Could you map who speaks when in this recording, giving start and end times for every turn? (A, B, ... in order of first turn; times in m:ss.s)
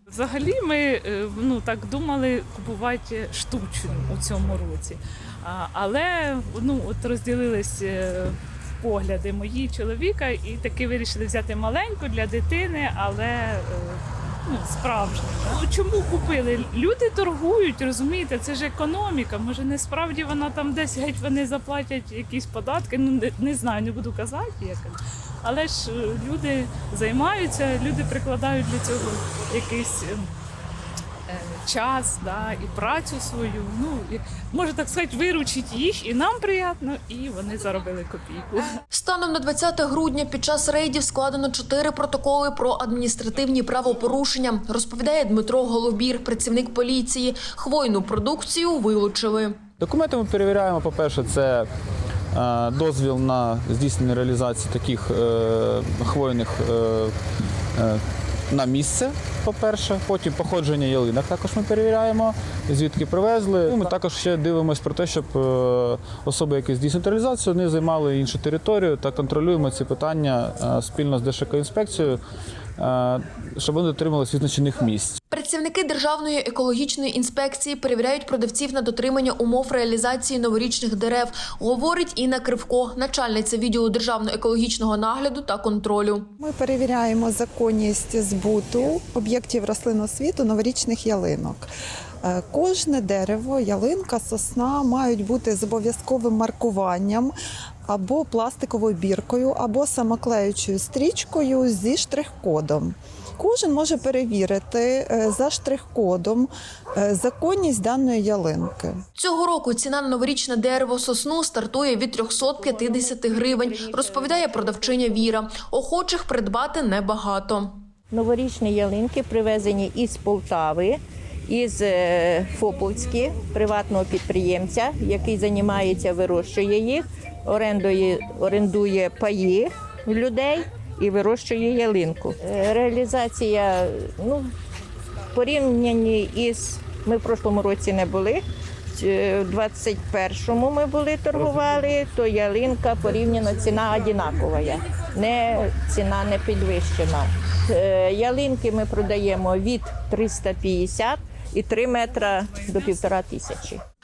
0:00.1-0:30.3 A
0:31.3-0:38.7 A
0:38.9-0:49.6 B
0:49.8-0:51.7 C
0:52.3-0:57.1 C
0:57.8-1:12.2 C
1:12.8-1:15.2 C
1:15.3-1:26.3 B
1:26.4-1:31.7 D
1:32.2-1:37.3 D
1:37.9-1:49.0 D
1:49.2-1:57.8 B
1:52.4-1:55.2 E
1:58.1-2:14.5 E
2:15.3-2:18.4 E
2:18.9-2:33.8 E